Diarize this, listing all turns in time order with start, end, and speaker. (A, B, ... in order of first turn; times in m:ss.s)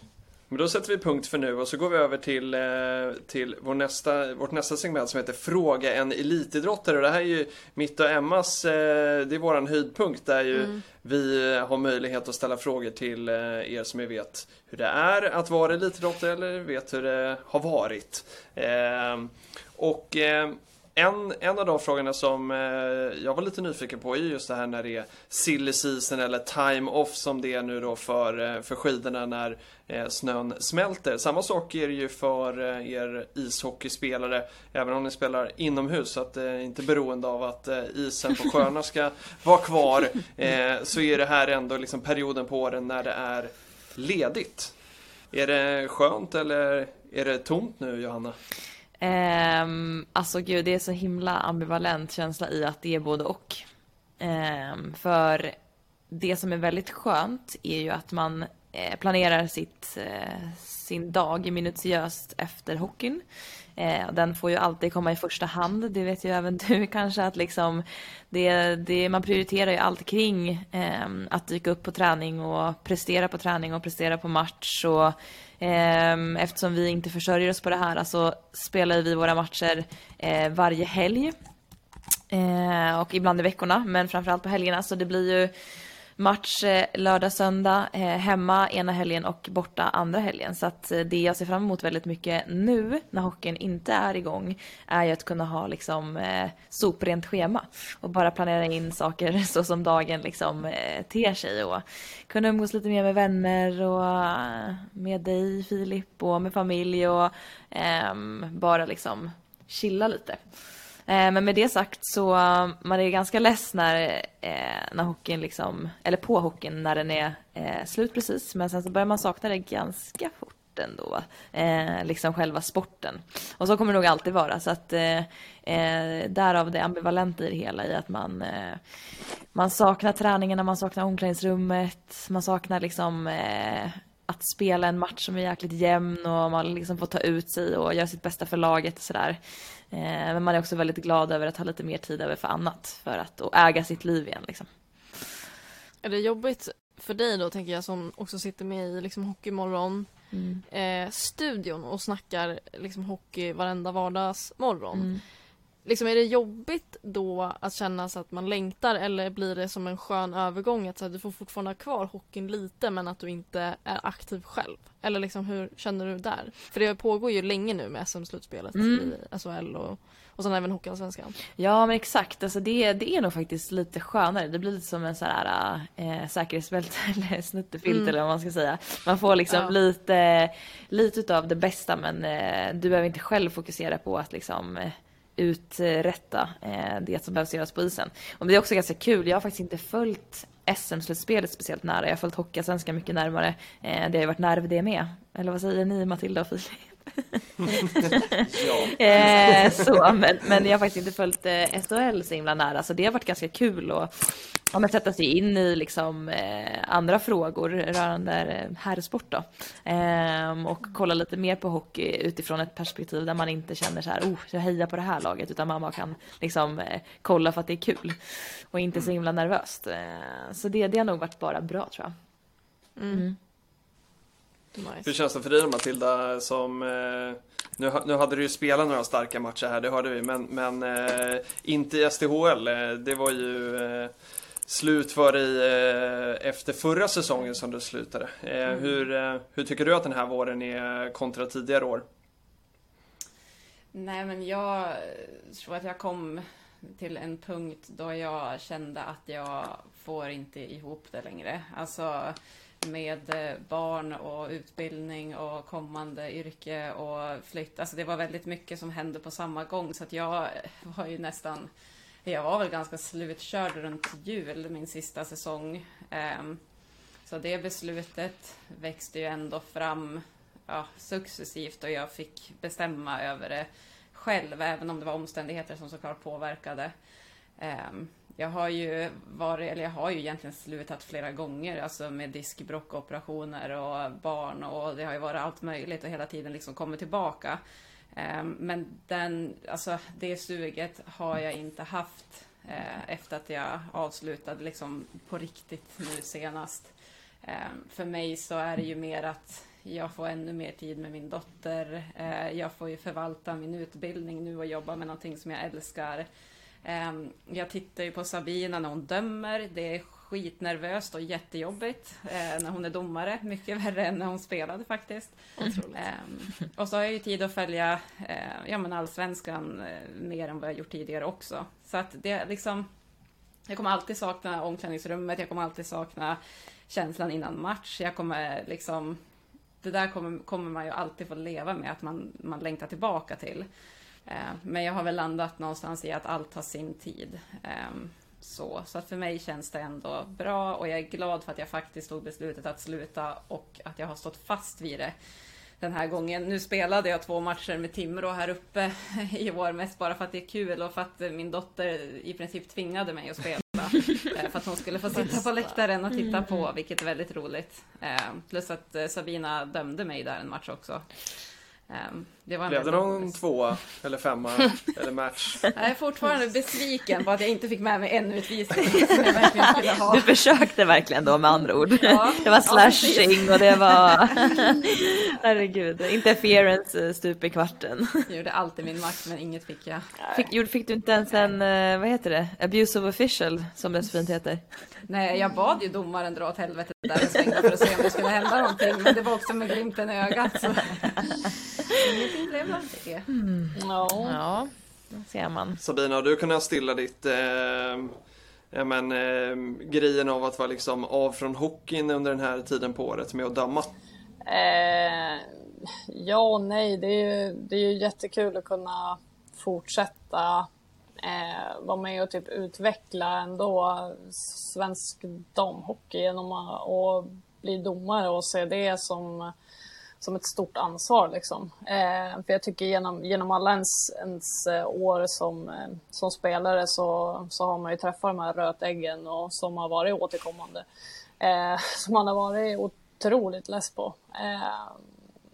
0:00.5-0:44.7 A
0:45.3-0:48.4 A
0:49.0-0:53.6 B
0:54.2-0:55.6 B
0:56.1-1:03.2 B
1:03.8-1:21.3 B
1:22.3-1:25.5 B
1:26.2-1:50.4 B
1:51.1-2:08.8 B
2:09.5-2:19.4 B
2:19.9-2:25.2 B
2:26.0-2:35.2 C
2:30.3-2:30.6 B
2:34.9-2:35.2 B
2:35.8-2:51.4 C
2:48.7-2:49.1 B
2:51.6-3:18.3 B
2:57.9-2:58.1 C
2:59.5-2:59.8 C
3:17.7-3:20.0 A
3:18.9-3:42.1 B
3:43.0-3:43.2 C
3:43.1-3:43.4 B
3:44.8-3:45.1 C
3:45.0-3:54.1 A
3:54.6-4:02.0 A
4:03.9-4:21.7 D
4:22.2-4:26.6 D
4:27.2-4:36.9 D
4:37.6-4:47.6 D
4:48.1-4:56.9 D
4:57.4-5:06.3 D
5:06.8-5:22.9 D
5:15.6-5:16.0 C
5:23.7-5:29.2 D
5:29.8-5:33.7 D
5:34.3-5:45.1 D
5:45.8-6:01.3 D
5:56.2-5:56.6 B
6:01.9-6:03.4 D
6:02.7-6:05.6 A
6:05.8-6:10.3 D
6:10.1-6:18.3 B
6:12.0-6:14.0 D
6:18.3-6:20.1 D
6:20.2-6:20.5 E
6:20.3-6:24.9 B
6:25.1-6:31.4 D
6:31.9-6:33.3 D
6:33.3-6:35.8 B
6:33.8-6:34.4 E
6:35.8-6:38.2 A
6:38.7-6:43.9 A
6:44.5-6:45.4 E
6:46.1-6:50.7 E
6:51.2-6:59.5 E
7:00.2-7:10.8 E
7:11.4-7:15.0 E